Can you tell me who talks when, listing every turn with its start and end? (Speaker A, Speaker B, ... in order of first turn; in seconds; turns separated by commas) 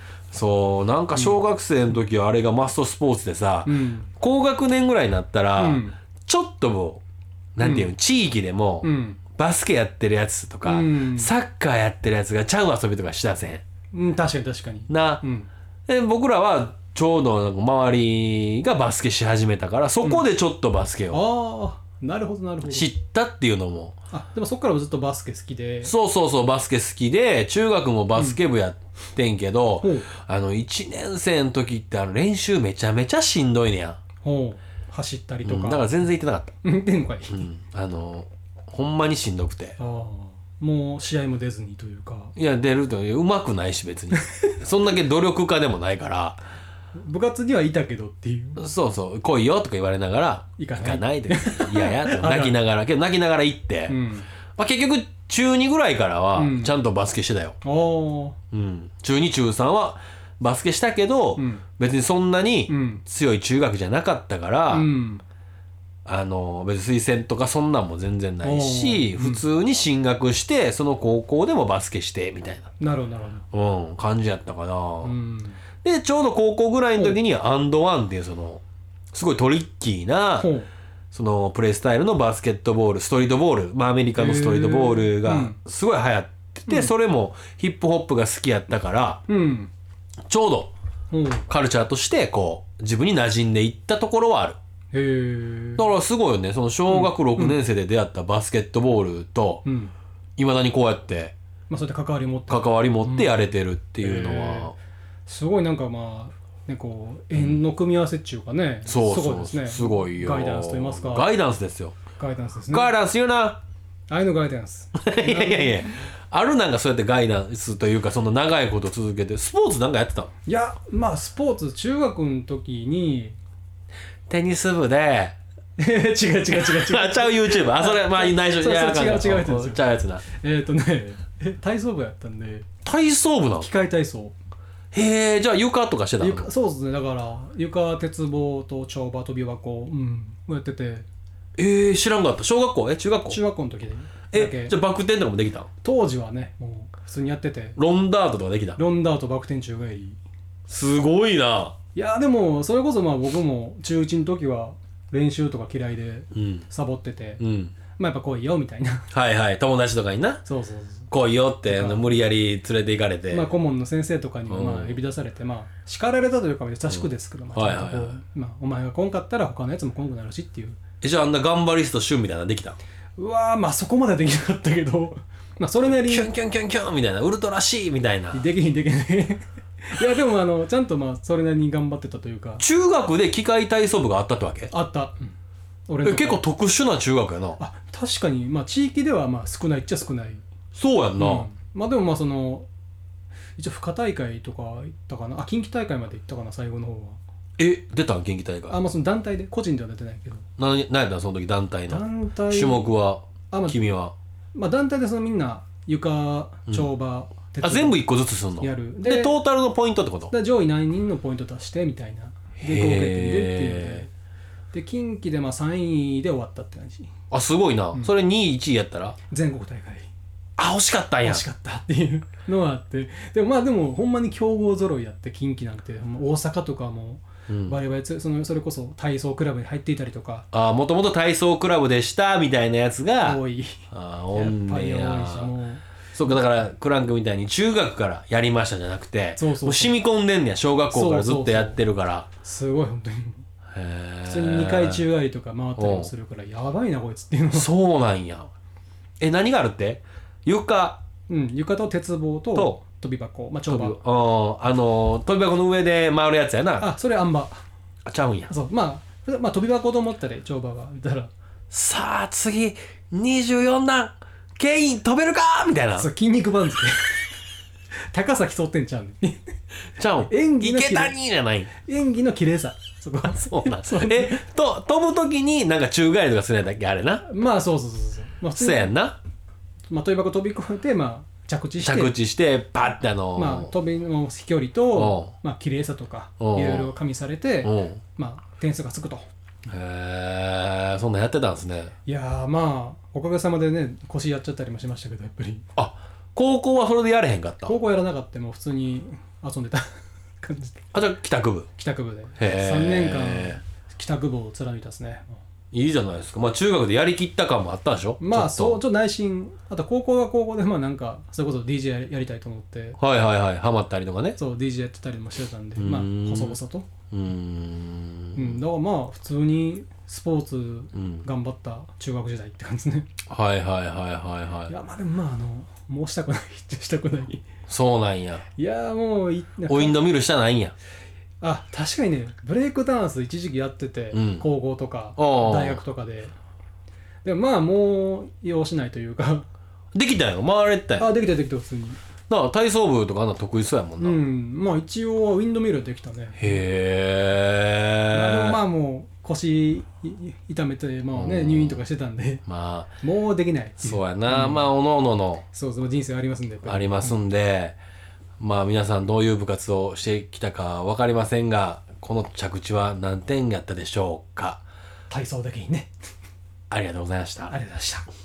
Speaker A: 0.3-7.0, Speaker B: 3.7-4.1, Speaker B: 5.6-6.0, Speaker A: 7.5-13.6, Speaker B: 7.6-7.9, Speaker B: 8.8-9.2, Speaker B: 10.7-11.3, Speaker B: 13.9-15.5, Speaker A: 14.9-15.2, Speaker A: 15.9-21.2, Speaker B: 21.1-22.9, Speaker A: 22.6-24.0, Speaker B: 24.1-25.9, Speaker A: 25.8-34.0, Speaker B: 28.1-28.4, Speaker B: 29.8-30.1, Speaker B: 34.2-36.0, Speaker A: 35.4-36.5, Speaker B: 36.6-37.5, Speaker A: 37.3-39.8, Speaker B: 39.8-42.3, Speaker A: 42.4-46.4, Speaker B: 47.0-48.6, Speaker A: 48.6-54.0, Speaker B: 50.6-52.6, Speaker B: 53.9-54.3, Speaker A: 54.6-57.6, Speaker B: 56.4-56.8, Speaker B: 57.6-58.4, Speaker A: 58.5-64.9, Speaker B: 61.4-61.6, Speaker B: 62.7-63.0, Speaker B: 64.7-65.2, Speaker A: 66.1-72.7, Speaker B: 68.4-69.4, Speaker B: 72.8-73.5, Speaker A: 73.5-75.2, Speaker B: 75.0-75.6, Speaker A: 75.8-80.5, Speaker B: 80.4-80.7, Speaker A: 81.1-89.2, Speaker B: 84.2-85.6, Speaker B: 89.3-89.7, Speaker A: 90.3-90.7, Speaker B: 91.1-91.5, Speaker A: 91.5-94.6, Speaker B: 94.9-95.9, Speaker A: 95.8-99.6, Speaker B: 96.9-97.6, Speaker B: 99.7-99.9, Speaker A: 100.4-101.3, Speaker B: 101.7-103.4, Speaker A: 102.5-104.7, Speaker B: 104.0-104.7, Speaker B: 105.3-111.3, Speaker A: 107.3-107.6, Speaker A: 108.9-112.0, Speaker B: 112.2-113.0, Speaker A: 112.7-113.6, Speaker B: 114.1-115.9, Speaker A: 115.0-120.3, Speaker B: 120.5-123.4, Speaker A: 124.3-125.4, Speaker B: 125.8-132.7, Speaker A: 126.5-130.2, Speaker A: 132.8-133.7, Speaker B: 133.6-134.4, Speaker A: 134.9-136.5, Speaker B: 136.2-141.1, Speaker A: 141.6-143.4, Speaker B: 143.3-144.7, Speaker A: 144.3-145.7, Speaker B: 145.8-147.8, Speaker A: 147.8-148.8, Speaker B: 148.8-150.2, Speaker A: 150.7-151.8, Speaker B: 151.9-157.4, Speaker A: 156.3-156.7, Speaker A: 157.4-157.8, Speaker B: 157.9-159.1, Speaker A: 159.1-160.4, Speaker B: 160.4-161.1, Speaker A: 161.1-163.5, Speaker B: 161.7-162.2, Speaker B: 163.3-170.8, Speaker A: 164.5-165.0, Speaker A: 166.9-168.2, Speaker A: 171.0-172.8, Speaker B: 173.2-176.3, Speaker A: 175.9-178.4, Speaker B: 178.3-182.6, Speaker A: 182.6-184.7, Speaker B: 184.7-185.3, Speaker B: 185.9-186.4, Speaker A: 186.0-187.6, Speaker B: 187.6-190.4, Speaker A: 190.8-191.5, Speaker B: 191.2-192.7, Speaker B: 193.6-197.2, Speaker A: 197.6-198.8, Speaker B: 198.7-200.4, Speaker A: 200.6-204.1, Speaker B: 201.9-202.9, Speaker B: 203.5-203.9, Speaker B: 204.5-208.1, Speaker A: 207.6-210.3, Speaker B: 208.6-209.4, Speaker B: 210.3-214.1, Speaker A: 212.6-214.1, Speaker B: 214.7-217.1, Speaker A: 217.3-219.2, Speaker B: 219.3-220.1, Speaker A: 220.6-221.4, Speaker B: 221.2-230.5, Speaker A: 227.5-227.8, Speaker A: 230.5-233.4, Speaker B: 233.2-236.4, Speaker A: 233.9-235.5, Speaker A: 236.2-242.3, Speaker B: 239.4-240.0, Speaker B: 240.9-241.8, Speaker B: 242.3-243.4, Speaker A: 243.7-245.1, Speaker B: 244.2-247.7, Speaker A: 245.8-246.1, Speaker A: 247.5-248.5, Speaker A: 249.2-251.0, Speaker B: 251.3-254.0, Speaker A: 252.6-252.8, Speaker A: 253.7-256.9, Speaker B: 256.8-257.6, Speaker A: 258.1-258.5, Speaker B: 258.5-261.3, Speaker A: 261.7-266.1, Speaker B: 266.0-267.4, Speaker B: 268.1-269.5, Speaker A: 270.0-271.7, Speaker B: 270.3-271.1, Speaker B: 271.7-274.4, Speaker A: 273.4-277.2, Speaker B: 277.2-278.9, Speaker A: 278.6-279.2, Speaker B: 279.9-282.1, Speaker A: 281.8-283.7, Speaker B: 283.4-289.3, Speaker A: 284.9-285.3, Speaker A: 286.4-286.9, Speaker A: 287.6-288.0, Speaker A: 289.7-291.9, Speaker B: 292.1-295.7, Speaker A: 295.8-297.8, Speaker B: 297.7-300.9, Speaker A: 300.9-301.7, Speaker B: 301.8-305.3, Speaker A: 302.4-303.6, Speaker A: 305.7-308.8, Speaker B: 308.2-313.0, Speaker A: 313.0-314.4, Speaker B: 314.4-316.9, Speaker A: 315.8-316.6, Speaker A: 317.1-318.6, Speaker B: 318.4-323.1, Speaker A: 320.9-321.2, Speaker A: 323.3-324.7, Speaker B: 324.7-327.5, Speaker A: 327.7-328.4, Speaker B: 328.6-330.1, Speaker A: 329.7-330.8, Speaker B: 331.4-336.3, Speaker A: 334.1-334.4, Speaker A: 335.2-335.8, Speaker B: 337.2-339.5, Speaker A: 339.9-341.1, Speaker B: 341.0-342.0, Speaker A: 342.3-344.2, Speaker B: 344.0-346.6, Speaker A: 346.4-348.6, Speaker B: 348.1-352.4, Speaker A: 351.1-351.8, Speaker A: 352.5-353.0, Speaker B: 353.0-354.7, Speaker A: 353.8-355.4, Speaker B: 355.5-357.1, Speaker A: 356.7-357.8, Speaker A: 358.4-364.6, Speaker B: 365.1-365.9, Speaker A: 366.7-367.6, Speaker B: 367.5-368.1